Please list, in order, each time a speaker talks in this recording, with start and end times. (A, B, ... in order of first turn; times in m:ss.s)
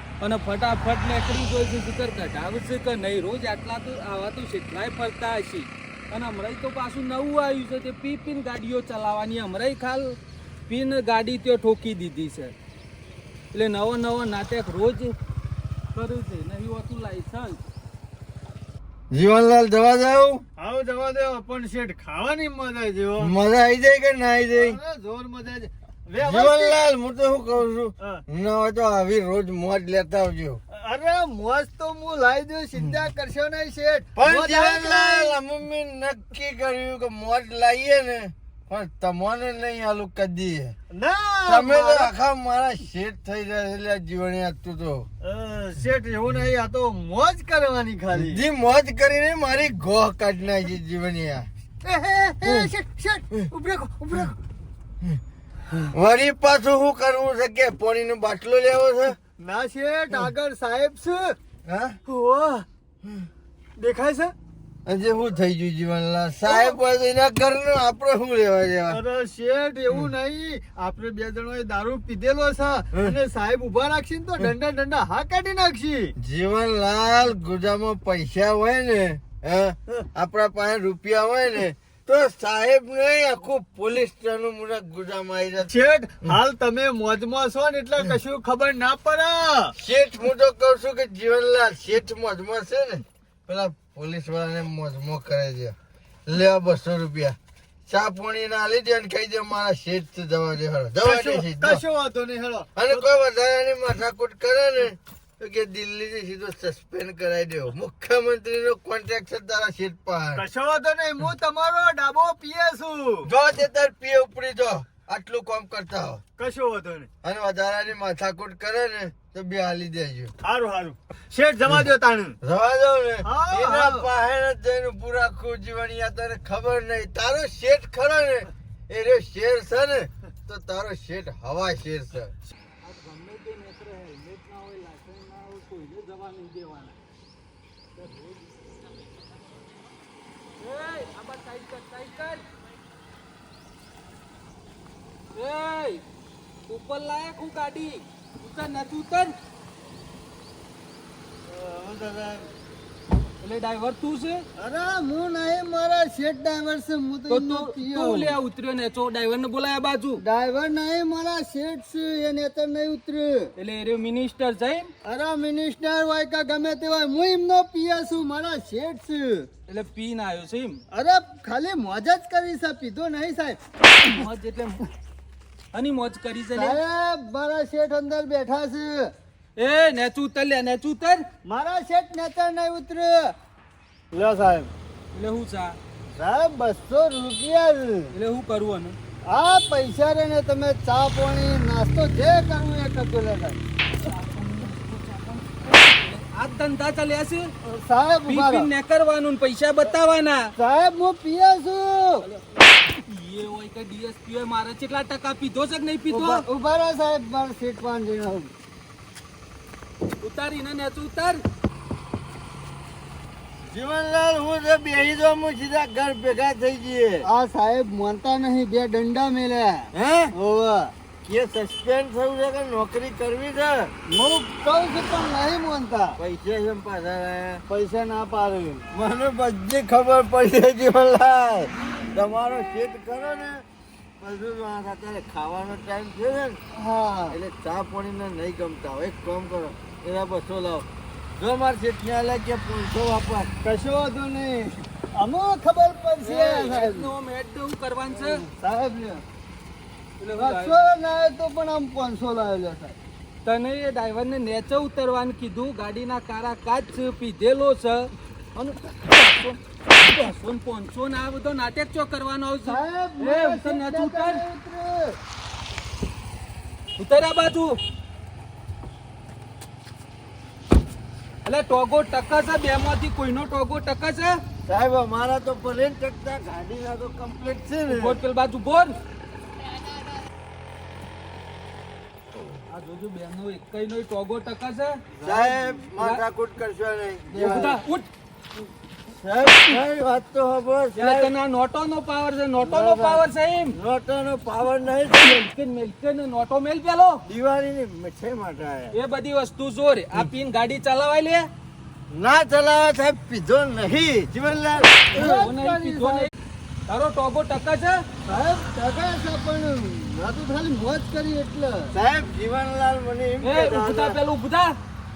0:00.2-0:12.5 A
0:13.5-0:15.2 A
0:15.9-0:17.6 A
0:19.1-0:20.4 B
0:20.6-0:23.3 C
0:23.2-0:24.8 B
0:24.5-0:26.8 C
0:26.2-0:30.6 B
0:30.7-0:35.3 C
0:34.2-0:40.8 B
0:40.9-0:42.1 C
0:41.5-0:45.1 B
0:45.2-0:48.4 C
0:48.1-0:51.5 B
0:51.8-0:54.3 C
0:52.4-0:52.7 B
0:55.9-0:59.2 B
0:59.4-1:01.4 C
1:01.7-1:02.0 B
1:02.1-1:02.6 C
1:03.8-1:04.3 C
1:04.8-1:09.0 B
1:06.4-1:06.8 C
1:08.9-1:16.1 C
1:16.2-1:25.7 B
1:25.7-1:29.7 C
1:29.8-1:35.7 B
1:36.2-1:37.4 B
1:37.9-1:41.8 B
1:41.0-1:43.1 C
1:42.8-1:50.4 B
1:50.4-1:53.3 C
1:53.2-1:56.2 B
1:56.4-1:57.1 C
1:57.2-2:00.3 B
2:00.4-2:02.4 C
2:02.4-2:12.3 B
2:03.2-2:04.0 C
2:12.8-2:17.0 A
2:18.0-2:18.4 A
2:20.6-2:22.4 A
2:25.4-2:26.0 A
2:26.7-2:29.3 A
2:31.4-2:32.5 C
2:33.4-2:34.4 A
2:34.6-2:38.4 C
2:37.3-2:40.2 A
2:40.2-2:43.5 C
2:43.6-2:44.9 A
2:45.0-2:49.5 C
2:49.7-2:50.8 A
2:50.9-2:54.2 C
2:54.0-2:54.9 A
2:55.7-2:56.8 A
2:56.5-2:59.1 C
2:59.6-3:01.2 A
3:01.4-3:03.3 C
3:04.1-3:04.7 C
3:05.1-3:05.8 A
3:06.1-3:08.1 C
3:08.1-3:09.0 A
3:09.3-3:13.6 C
3:14.0-3:17.5 A
3:17.6-3:18.7 C
3:18.3-3:20.5 A
3:20.6-3:22.2 C
3:22.2-3:26.4 A
3:26.1-3:28.5 C
3:30.2-3:31.4 A
3:33.7-3:37.2 B
3:37.2-3:40.9 C
3:39.9-3:40.3 B
3:41.2-3:43.9 B
3:44.1-3:46.2 C
3:46.2-3:47.6 B
3:47.7-3:48.8 C
3:48.9-3:53.6 B
3:54.2-3:56.6 B
3:56.7-3:57.4 C
3:57.3-4:00.9 B
4:01.4-4:03.5 B
4:03.6-4:07.1 C
4:06.2-4:08.4 A
4:08.2-4:09.2 C
4:10.2-4:10.7 A
4:10.4-4:13.0 C
4:13.4-4:24.4 A
4:22.6-4:25.2 C
4:27.0-4:27.8 A
4:31.4-4:34.4 A
4:34.6-4:38.2 B
4:37.9-4:38.9 A
4:42.7-4:45.1 A
4:45.2-4:45.7 C
4:45.2-4:47.8 B
4:46.0-4:46.2 A
4:47.3-4:48.1 A
4:49.1-4:51.3 B
4:50.9-4:53.7 A
4:52.6-4:55.4 B
4:55.2-4:57.2 A
4:57.3-4:58.9 B
4:58.9-5:01.5 A
5:02.1-5:05.5 B
5:05.1-5:06.3 C
5:05.1-5:06.3 A
5:06.9-5:08.0 A
5:08.2-5:11.9 C
5:11.9-5:14.2 B
5:13.4-5:14.8 A